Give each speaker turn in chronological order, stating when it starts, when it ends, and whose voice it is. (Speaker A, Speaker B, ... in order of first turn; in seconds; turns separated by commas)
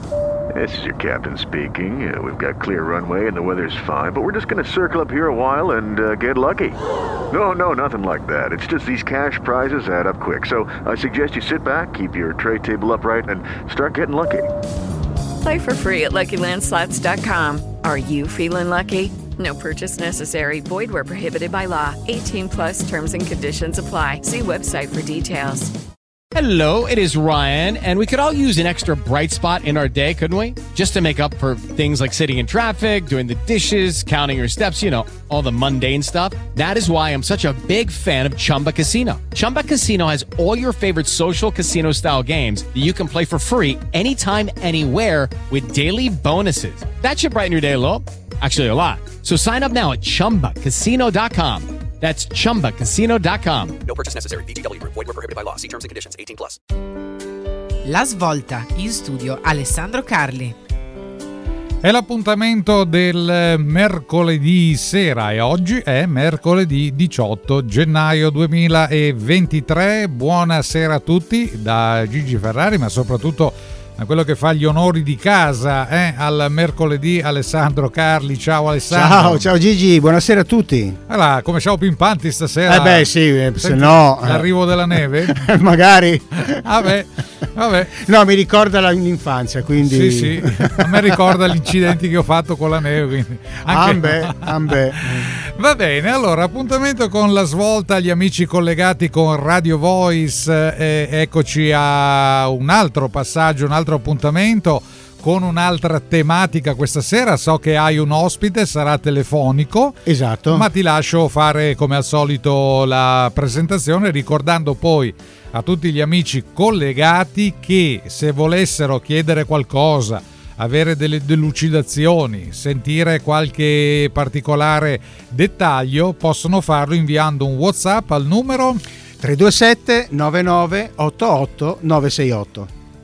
Speaker A: 0.5-6.8, Speaker A: 7.3-14.5, Speaker B: 15.4-25.7, Speaker C: 26.3-53.9, Speaker D: 53.9-56.6, Speaker E: 57.8-60.5, Speaker F: 61.8-79.5, Speaker G: 78.9-81.0, Speaker F: 81.1-85.5, Speaker G: 82.7-86.6, Speaker F: 86.4-88.0, Speaker G: 87.9-91.4, Speaker F: 89.8-128.8, Speaker G: 93.7-95.3, Speaker G: 110.0-110.7, Speaker G: 129.2-132.7